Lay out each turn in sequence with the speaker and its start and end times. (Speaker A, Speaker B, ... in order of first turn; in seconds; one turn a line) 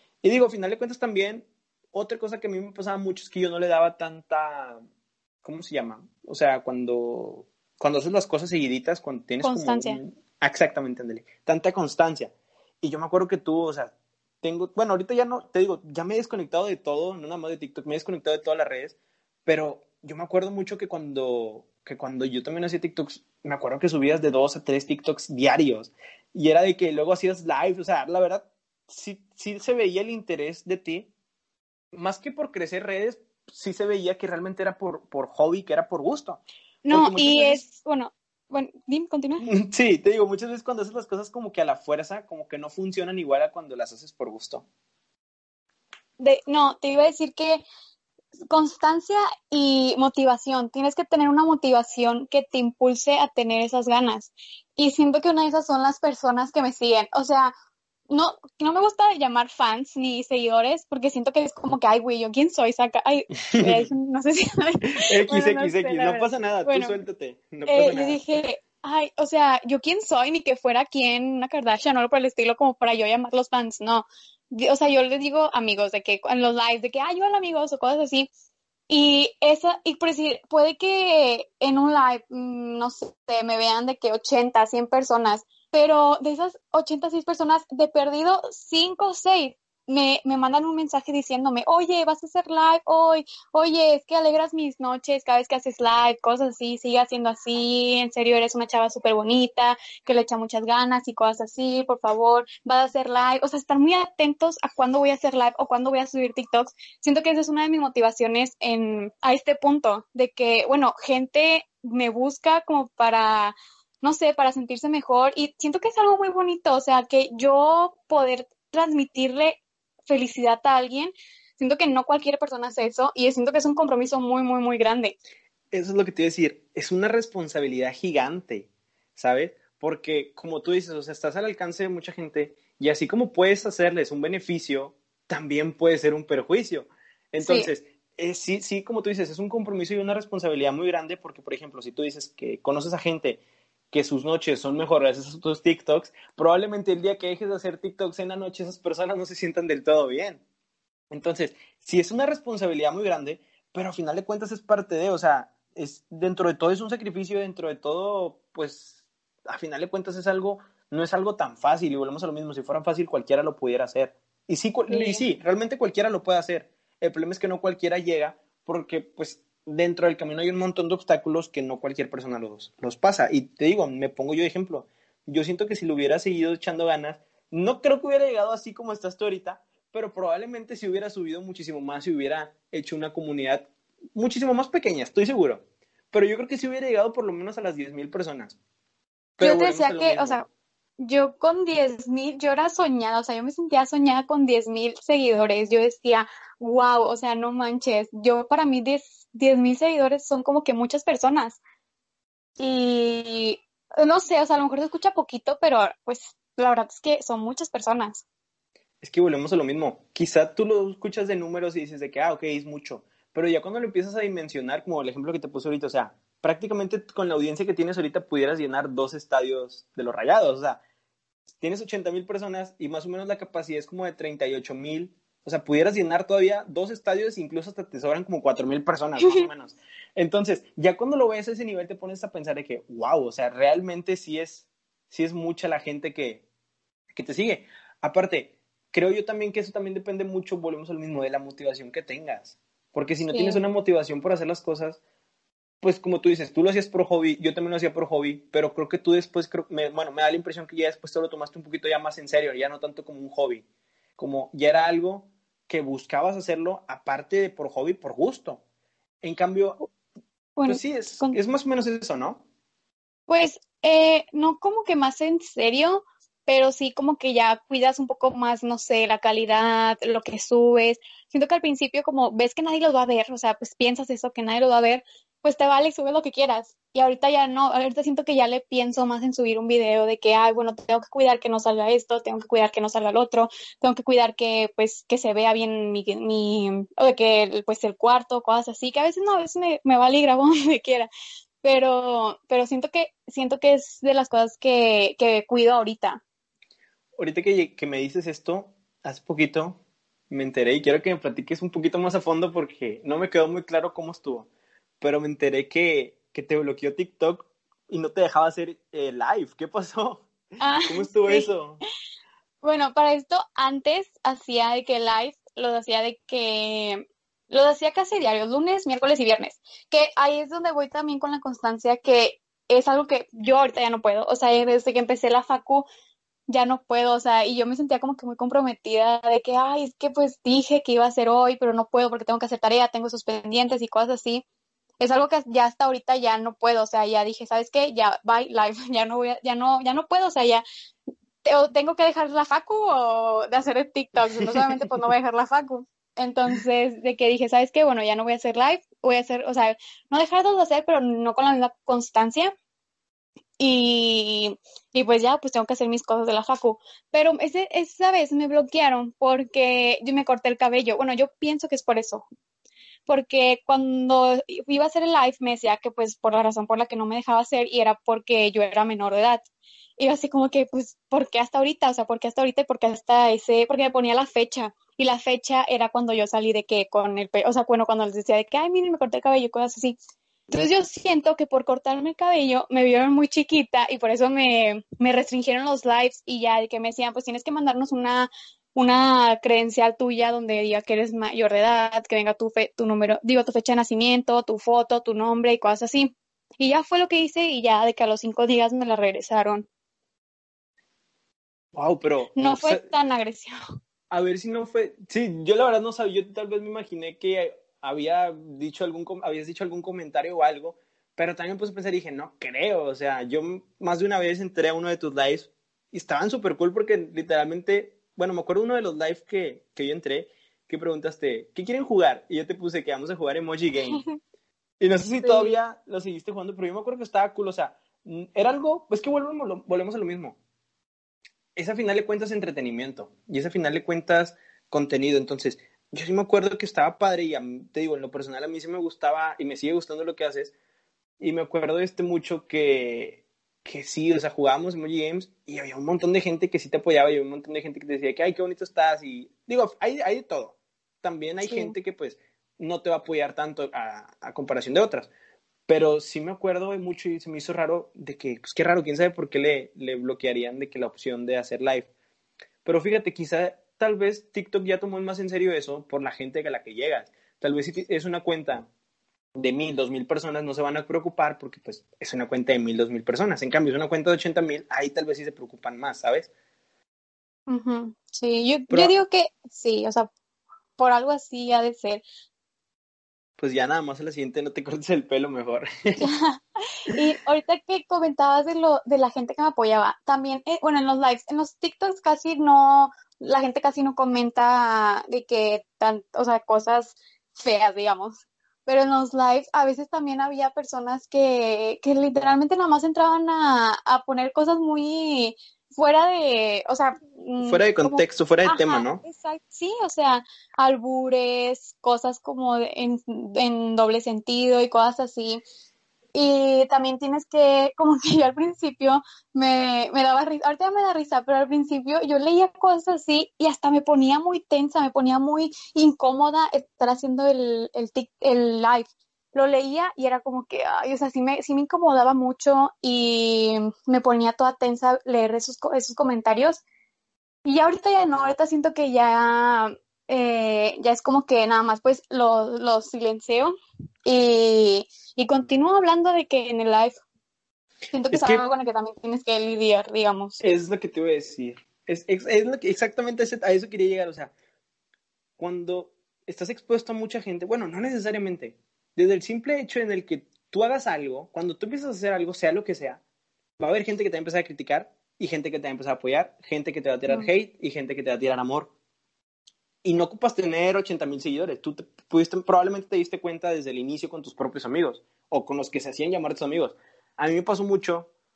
Speaker A: 0.2-4.8
Speaker A: 5.4-31.1
Speaker B: 9.4-10.0
Speaker A: 31.9-37.6
Speaker B: 36.8-39.5
Speaker A: 39.4-44.6
Speaker B: 46.2-47.6
Speaker B: 48.5-57.5
Speaker B: 58.1-67.0
Speaker A: 63.5-63.9
Speaker A: 64.9-68.2
Speaker B: 67.7-78.3
Speaker B: 78.9-125.2
Speaker A: 125.7-150.4
Speaker B: 137.4-137.7
Speaker A: 151.1-158.9
Speaker A: 159.4-188.6
Speaker B: 164.9-165.2
Speaker A: 189.4-190.4
Speaker B: 189.4-190.4
Speaker B: 191.0-201.6
Speaker B: 202.6-208.2
Speaker A: 209.0-220.8
Speaker A: 221.6-236.4
Speaker B: 229.2-229.5
Speaker A: 237.1-245.0
Speaker B: 243.3-243.6
Speaker A: 245.8-253.6
Speaker A: 254.2-258.6
Speaker A: 259.2-259.8
Speaker B: 260.6-261.4
Speaker A: 260.6-262.4
Speaker B: 263.3-291.1
Speaker B: 291.6-296.2
Speaker A: 297.2-299.8
Speaker A: 300.3-304.5
Speaker A: 305.0-310.3
Speaker B: 310.6-311.5
Speaker A: 310.9-311.8
Speaker B: 312.6-325.9
Speaker B: 326.5-334.4
Speaker B: 335.0-340.6
Speaker B: 341.4-352.5
Speaker B: 353.6-362.2
Speaker B: 363.1-369.4
Speaker B: 370.0-380.0
Speaker B: 380.5-399.7
Speaker A: 401.7-402.9
Speaker B: 402.4-403.5
Speaker A: 404.1-424.0
Speaker B: 423.8-424.1
Speaker A: 424.8-430.4
Speaker B: 425.2-425.6
Speaker A: 431.6-440.5
Speaker A: 441.2-455.1
Speaker B: 451.4-451.7
Speaker A: 455.7-461.9
Speaker A: 462.6-468.7
Speaker A: 469.4-476.3
Speaker B: 477.5-480.1
Speaker B: 480.8-482.0
Speaker A: 483.4-486.1
Speaker B: 486.0-515.4
Speaker A: 507.4-509.0
Speaker B: 516.1-536.6
Speaker B: 537.4-543.5
Speaker B: 544.0-547.0
Speaker B: 547.9-550.4
Speaker A: 548.1-548.4
Speaker A: 550.4-554.3
Speaker A: 555.4-563.0
Speaker A: 563.6-568.7
Speaker A: 569.8-578.1